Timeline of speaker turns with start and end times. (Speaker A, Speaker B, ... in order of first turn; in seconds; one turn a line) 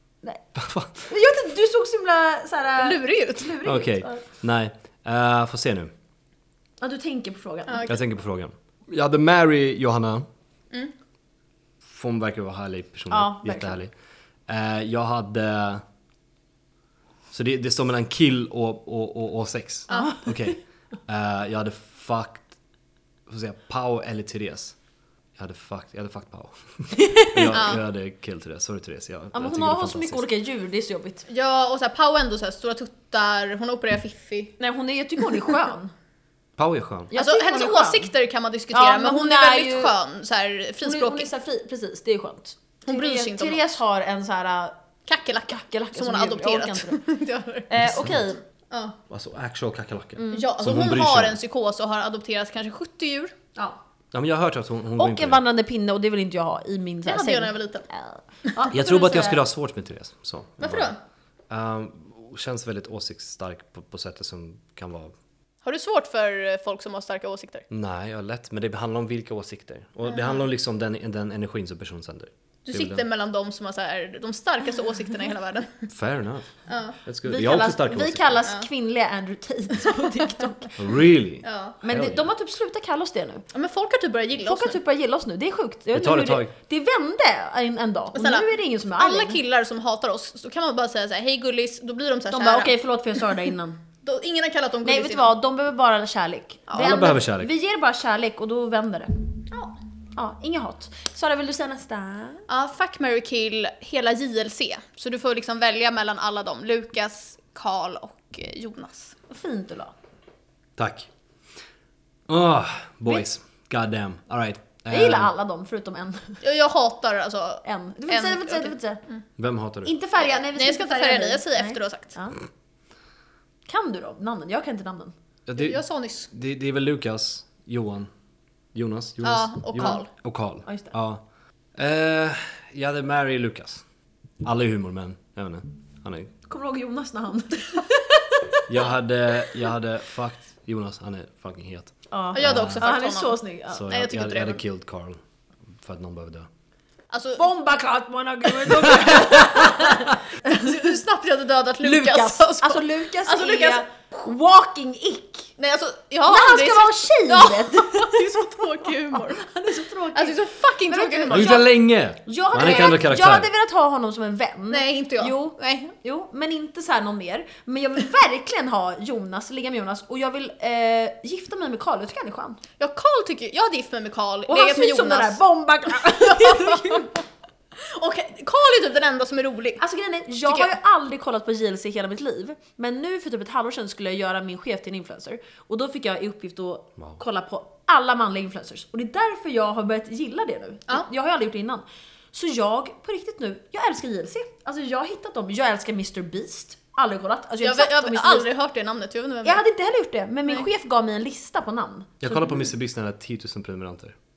Speaker A: 0.6-1.1
Speaker B: 1.1-4.3
Speaker C: 2.8-3.5
Speaker A: 3.6-5.9
Speaker B: 6.8-7.9
Speaker C: 7.7-8.0
Speaker A: 7.9-10.3
Speaker A: 11.8-13.9
Speaker B: 13.1-13.8
Speaker A: 14.5-15.8
Speaker A: 17.3-22.5
Speaker C: 19.9-20.2
Speaker B: 19.9-20.3
Speaker A: 23.3-24.8
Speaker A: 25.4-30.2
Speaker B: 26.9-27.6
Speaker C: 27.5-27.8
Speaker B: 29.3-31.2
Speaker C: 31.3-34.6
Speaker B: 34.6-35.9
Speaker A: 36.6-37.1
Speaker B: 37.1-38.1
Speaker C: 37.1-41.3
Speaker B: 38.7-40.0
Speaker B: 40.8-44.8
Speaker C: 42.9-43.7
Speaker C: 45.1-47.8
Speaker B: 45.5-47.0
Speaker B: 47.7-48.4
Speaker A: 47.8-48.2
Speaker C: 48.7-49.0
Speaker A: 49.1-51.4
Speaker B: 50.2-50.5
Speaker C: 50.3-53.3
Speaker A: 54.1-55.4
Speaker B: 55.0-59.4
Speaker C: 57.1-57.9
Speaker A: 58.7-61.0
Speaker C: 60.6-61.0
Speaker A: 61.5-65.1
Speaker C: 65.6-67.7
Speaker A: 67.7-73.0
Speaker C: 70.1-70.4
Speaker C: 72.7-75.9
Speaker A: 75.9-76.5
Speaker C: 76.7-77.0
Speaker A: 77.0-78.4
Speaker B: 77.2-80.8
Speaker A: 80.8-82.3
Speaker C: 81.4-81.8
Speaker B: 81.8-83.5
Speaker C: 83.5-84.8
Speaker B: 84.4-89.4
Speaker A: 85.9-86.5
Speaker C: 88.1-93.3
Speaker B: 92.3-93.8
Speaker C: 94.0-95.3
Speaker B: 94.8-99.2
Speaker C: 96.7-97.2
Speaker A: 96.8-97.5
Speaker C: 99.5-99.8
Speaker B: 100.2-102.4
Speaker C: 102.5-109.2
Speaker B: 109.3-109.9
Speaker A: 110.8-111.1
Speaker A: 112.3-115.3
Speaker B: 114.9-116.4
Speaker C: 116.4-119.2
Speaker B: 117.7-119.0
Speaker A: 119.4-119.9
Speaker B: 119.8-122.3
Speaker C: 120.2-122.1
Speaker B: 123.7-125.1
Speaker A: 125.5-125.8
Speaker C: 125.6-126.3
Speaker A: 126.3-128.1
Speaker A: 128.7-131.2
Speaker C: 129.2-130.1
Speaker B: 130.7-130.9
Speaker A: 131.8-133.8
Speaker A: 134.4-136.3
Speaker B: 136.5-138.8
Speaker A: 138.7-142.9
Speaker B: 142.1-143.9
Speaker C: 142.3-144.6
Speaker A: 143.7-145.2
Speaker A: 145.7-146.5
Speaker C: 147.1-147.4
Speaker B: 147.4-150.9
Speaker A: 148.8-149.8
Speaker C: 150.4-153.8
Speaker B: 151.8-155.5
Speaker C: 155.6-159.4
Speaker B: 156.3-172.6
Speaker C: 160.1-161.7
Speaker A: 161.3-163.5
Speaker C: 164.7-165.9
Speaker C: 172.8-175.4
Speaker B: 174.5-177.1
Speaker C: 176.1-177.1
Speaker C: 177.8-179.8
Speaker B: 179.8-198.5
Speaker C: 180.5-180.7
Speaker C: 197.6-199.6
Speaker B: 199.4-202.7
Speaker A: 202.2-204.2